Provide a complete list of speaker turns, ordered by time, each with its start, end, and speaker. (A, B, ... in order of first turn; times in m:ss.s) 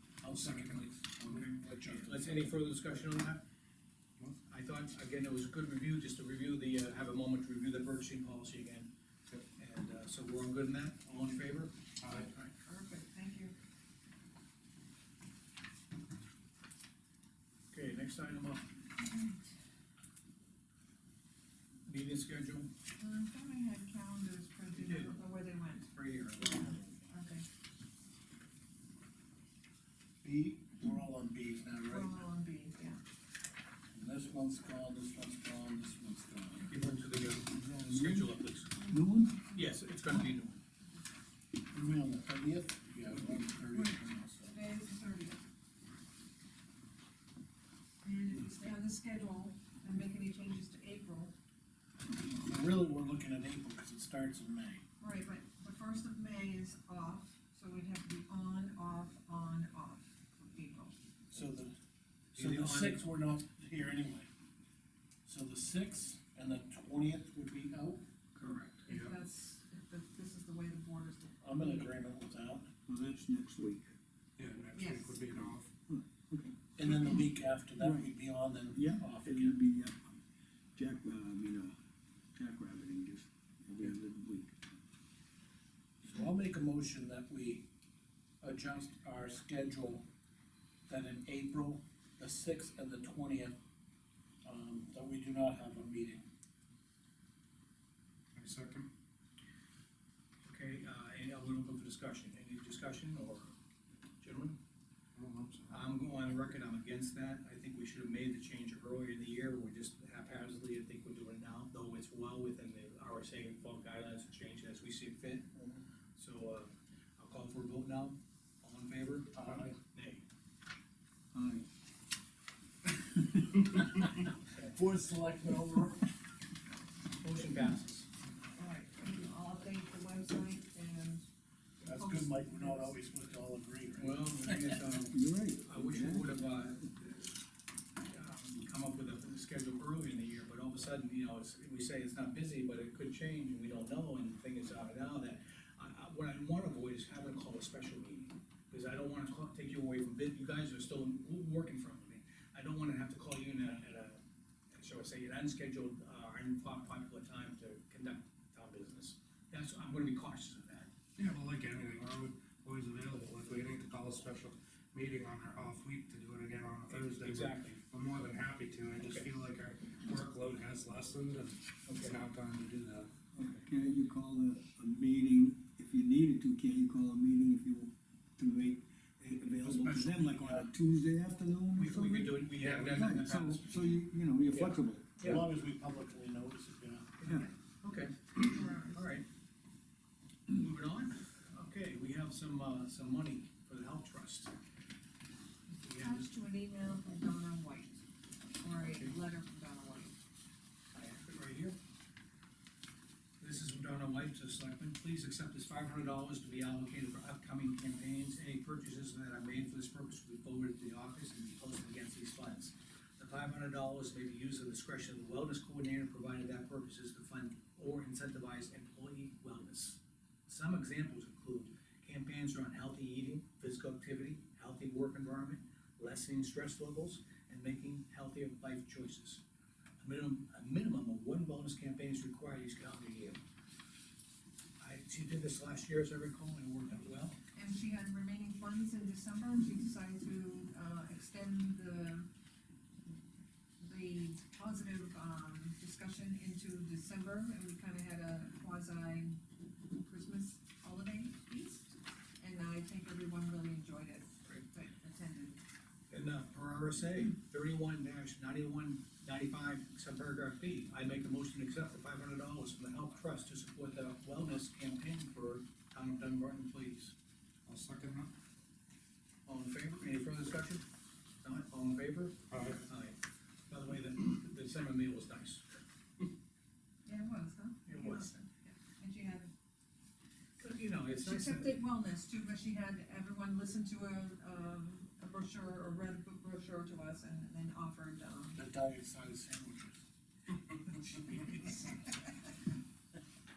0:00.2-0:02.5 A
0:00.3-0:02.1 B
0:02.0-0:03.4 C
0:04.5-0:08.9 C
0:09.6-0:12.3 C
0:12.0-0:12.3 B
0:12.6-0:13.5 D
0:17.7-0:18.7 C
0:19.0-0:19.4 D
0:21.9-0:22.7 C
0:23.0-0:27.4 D
0:24.7-0:25.2 C
0:25.9-0:27.1 C
0:30.2-0:32.2 A
0:31.9-0:33.0 D
0:33.9-0:36.7 A
0:36.6-0:38.8 C
0:37.5-0:38.3 E
0:38.8-0:40.2 D
0:38.9-0:39.3 E
0:39.5-0:40.6 C
0:41.7-0:44.6 A
0:43.7-0:45.4 D
0:48.0-0:51.3 D
0:52.1-0:54.8 A
0:55.0-1:00.9 D
1:01.3-1:01.7 A
1:02.4-1:03.0 C
1:02.4-1:04.3 A
1:05.2-1:08.0 A
1:08.4-1:09.2 B
1:08.9-1:11.9 D
1:11.4-1:12.7 A
1:12.9-1:13.9 E
1:14.4-1:15.7 B
1:14.7-1:15.3 D
1:15.9-1:17.2 E
1:16.8-1:19.6 A
1:17.8-1:18.2 E
1:18.7-1:20.2 E
1:20.8-1:21.7 E
1:22.4-1:24.5 E
1:26.0-1:27.6 A
1:28.4-1:30.0 A
1:30.9-1:33.5 A
1:34.4-1:36.2 A
1:38.4-1:38.9 B
1:40.4-1:43.5 C
1:44.2-1:44.6 C
1:45.2-1:45.8 B
1:45.7-1:55.5 C
1:56.2-2:00.2 C
1:59.4-1:59.7 B
2:01.3-2:01.6 E
2:04.7-2:06.1 A
2:07.2-2:08.1 C
2:08.6-2:11.2 D
2:11.8-2:14.8 A
2:11.9-2:13.0 D
2:14.0-2:17.3 C
2:15.1-2:16.6 E
2:18.0-2:34.2 C
2:34.7-2:40.9 C
2:41.2-2:53.4 B
2:46.9-2:47.8 C
2:49.0-2:49.3 C
2:51.8-2:52.2 C
2:53.4-2:53.6 C
2:53.5-3:05.3 E
2:59.7-3:00.6 A
3:01.7-3:03.9 C
3:02.6-3:03.6 B
3:04.5-3:05.4 C
3:05.2-3:07.2 A
3:07.2-3:09.3 C
3:07.2-3:07.5 D
3:08.4-3:09.1 D
3:10.5-3:14.5 C
3:15.7-3:16.3 C
3:16.0-3:18.0 D
3:18.6-3:20.1 D
3:18.8-3:19.2 C
3:20.9-3:21.8 C
3:23.4-3:49.4 C
3:50.0-3:53.4 C
3:54.8-3:57.4 C
3:57.5-4:02.3 D
4:03.8-4:15.6 D
4:16.1-4:27.1 C
4:27.7-4:28.3 B
4:29.5-4:30.8 C
4:31.4-4:35.6 C
4:32.5-4:32.8 B
4:37.1-4:39.5 D
4:37.9-4:38.4 C
4:40.6-4:41.8 C
4:41.2-4:48.6 D
4:48.6-4:50.0 A
4:50.9-4:51.9 A